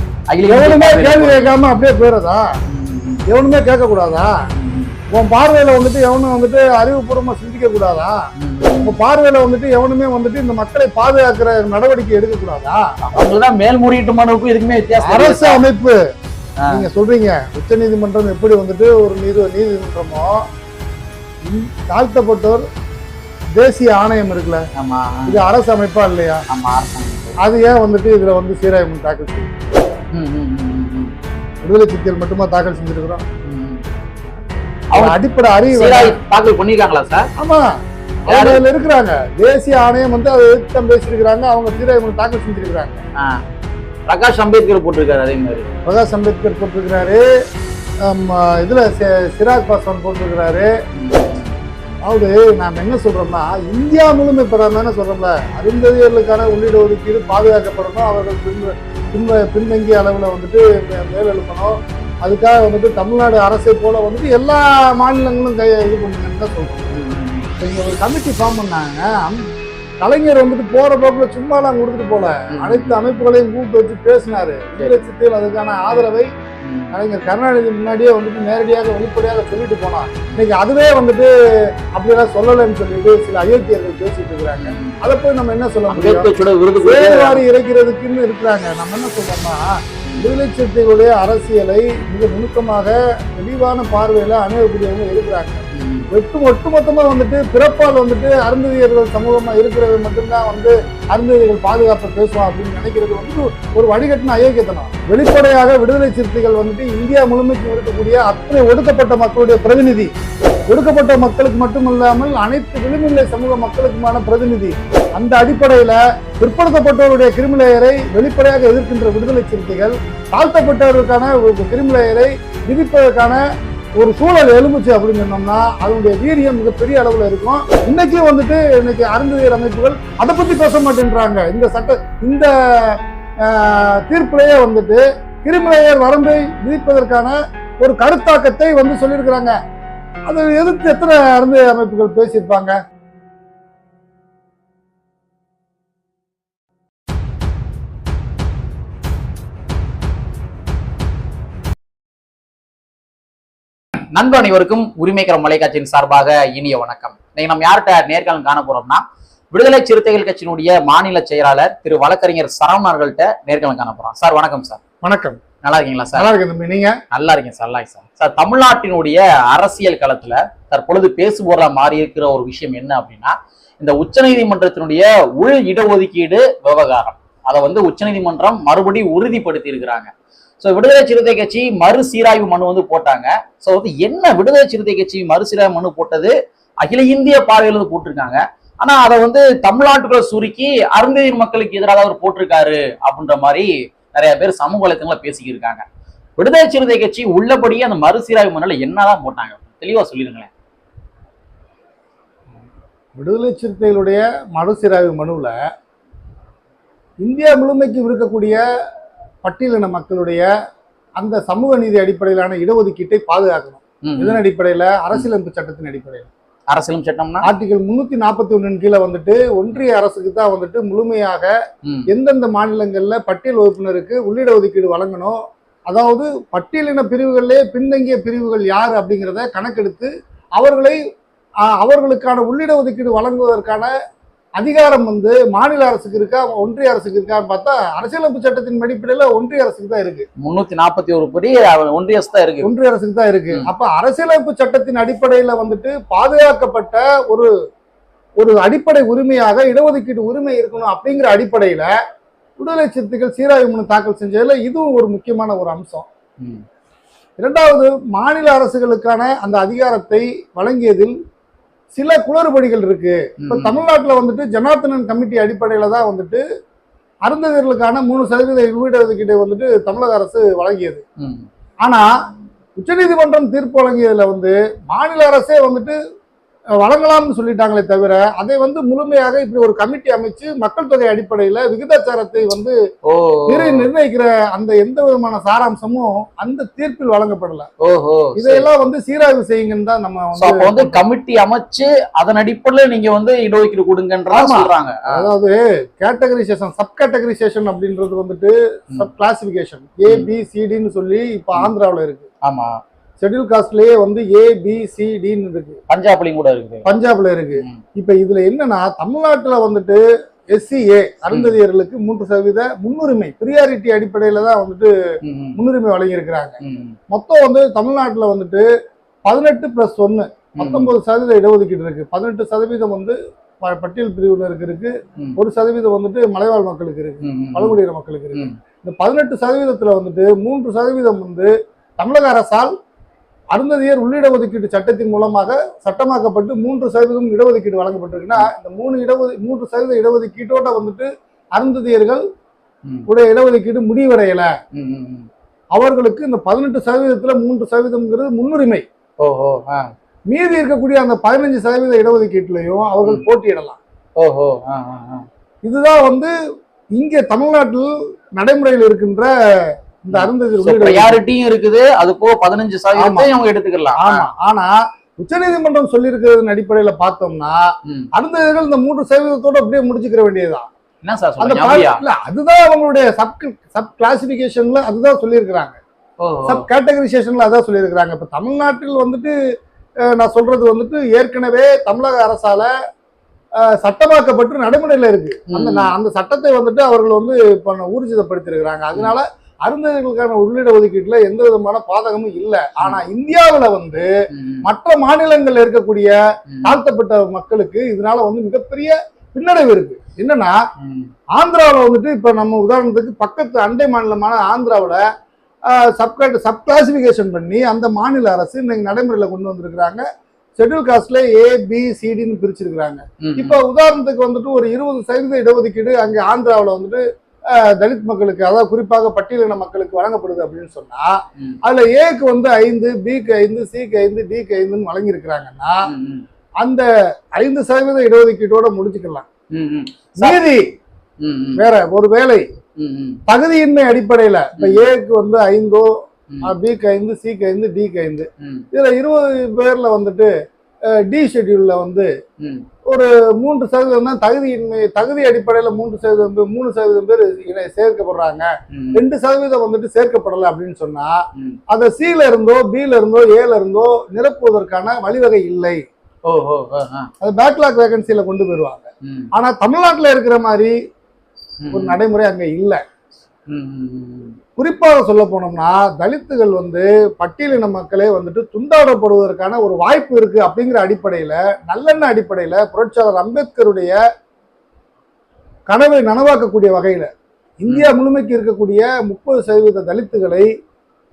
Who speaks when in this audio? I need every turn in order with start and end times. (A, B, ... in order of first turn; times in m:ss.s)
0:00.3-0:01.6 A
0:00.5-0:02.5 B
0:02.7-0:03.2 A
0:03.3-0:04.4 B
0:04.5-0:04.9 A
0:05.1-0:08.2 B
0:08.4-0:09.0 A
0:08.8-0:12.8 B
0:13.0-0:15.6 A
0:15.0-0:16.0 B
0:16.6-0:16.8 A
0:16.7-0:20.4 B
0:21.4-0:22.6 B
0:23.6-0:24.7 B
0:24.8-0:25.4 A
0:25.3-0:26.4 B
0:26.5-0:27.4 A
0:27.4-0:29.5 B
0:30.1-0:31.1 A
0:31.6-0:33.2 B
0:33.4-0:33.8 A
0:34.9-0:35.2 A
0:34.9-0:36.2 B
0:35.7-0:37.3 A
0:37.4-0:37.7 B
0:38.3-0:43.0 B
0:38.3-0:38.6 A
0:43.2-0:43.4 A
0:44.1-0:45.7 A
0:45.8-0:47.2 B
0:48.0-0:50.7 B
0:50.9-0:51.5 A
0:52.0-1:06.9 B
1:06.9-1:07.5 A
1:07.6-1:09.4 B
1:10.0-1:16.3 B
1:12.5-1:13.1 A
1:14.8-1:15.0 A
1:16.6-1:16.9 A
1:16.9-1:21.3 B
1:21.9-1:26.3 B
1:24.6-1:25.0 A
1:25.9-1:27.4 A
1:26.8-1:50.1 B
1:30.0-1:30.3 A
1:35.7-1:36.1 A
1:50.7-2:03.4 B
2:04.0-2:19.6 B
2:20.3-2:22.8 B
2:34.1-2:44.8 A
2:45.0-2:45.4 B
2:45.6-2:46.3 A
2:46.2-2:47.0 B
2:47.1-3:15.8 A
3:16.4-3:20.5 A
3:23.2-3:25.6 B
3:27.2-3:28.6 B
3:29.4-3:30.5 B
3:31.2-3:36.3 B
3:34.0-3:34.4 A
3:36.7-3:37.5 A
3:37.4-3:41.5 B
3:42.1-3:51.0 B
3:51.6-3:53.9 B
3:54.6-4:00.3 B
4:00.4-4:02.7 A
4:02.6-4:07.5 B
4:08.4-4:11.9 B
4:12.6-4:16.1 B
4:17.4-4:21.2 B
4:21.9-4:26.4 B
4:23.4-4:23.8 A
4:27.2-4:31.0 B
4:31.2-4:31.5 A
4:32.8-4:36.0 B
4:36.8-4:42.7 B
4:43.1-4:43.9 A
4:43.5-4:47.7 B
4:47.8-4:48.7 A
4:48.4-4:51.0 B
4:50.4-4:55.2 A
4:54.3-5:02.3 B
5:02.4-5:02.8 A
5:03.2-5:05.8 B
5:05.9-5:06.9 A
5:06.8-5:10.0 B
5:10.5-5:14.9 B
5:11.3-5:11.6 A
5:15.2-5:15.6 A
5:15.6-5:16.6 B
5:16.6-5:17.0 A
5:17.1-5:18.7 B
5:19.2-5:32.7 B
5:20.6-5:20.9 A
5:27.2-5:27.8 A
5:33.5-5:42.2 B
5:43.1-5:44.5 B
5:44.7-5:45.3 A
5:45.7-5:48.8 B
5:49.2-5:49.9 A
5:50.3-5:53.8 B
5:54.2-5:55.2 A
5:55.6-5:56.3 B
5:56.9-5:59.3 B
6:00.0-6:01.2 B
6:00.1-6:04.2 A
6:03.0-6:03.3 B
6:04.0-6:10.7 B
6:11.0-6:12.0 A
6:11.4-6:15.8 B
6:16.2-6:16.7 A
6:16.5-6:19.3 B
6:20.0-6:22.7 B
6:23.6-6:34.1 B
6:25.5-6:25.9 A
6:32.8-6:33.0 A
6:34.3-6:34.7 A
6:34.6-6:40.6 B
6:36.5-6:36.8 A
6:40.8-6:41.1 A
6:41.3-6:45.0 B
6:45.7-6:50.0 B
6:50.6-7:05.9 B
6:53.2-6:53.6 A
7:05.9-7:06.2 A
7:07.4-7:09.2 B
7:09.5-7:10.4 A
7:10.2-7:10.6 B
7:11.2-7:11.6 A
7:11.6-7:12.5 B
7:12.8-7:13.2 A
7:13.3-7:15.9 B
7:14.6-7:14.9 A
7:16.4-7:20.3 B
7:18.4-7:18.7 A
7:20.9-7:22.1 B
7:22.9-7:35.8 B
7:28.7-7:29.0 A
7:36.2-7:37.1 A
7:37.2-7:40.7 B
7:39.0-7:39.3 A
7:41.6-7:42.0 A
7:41.7-7:42.8 B
7:43.5-7:44.4 A
7:44.6-7:54.0 B
7:55.7-7:57.1 B
7:57.6-8:00.5 B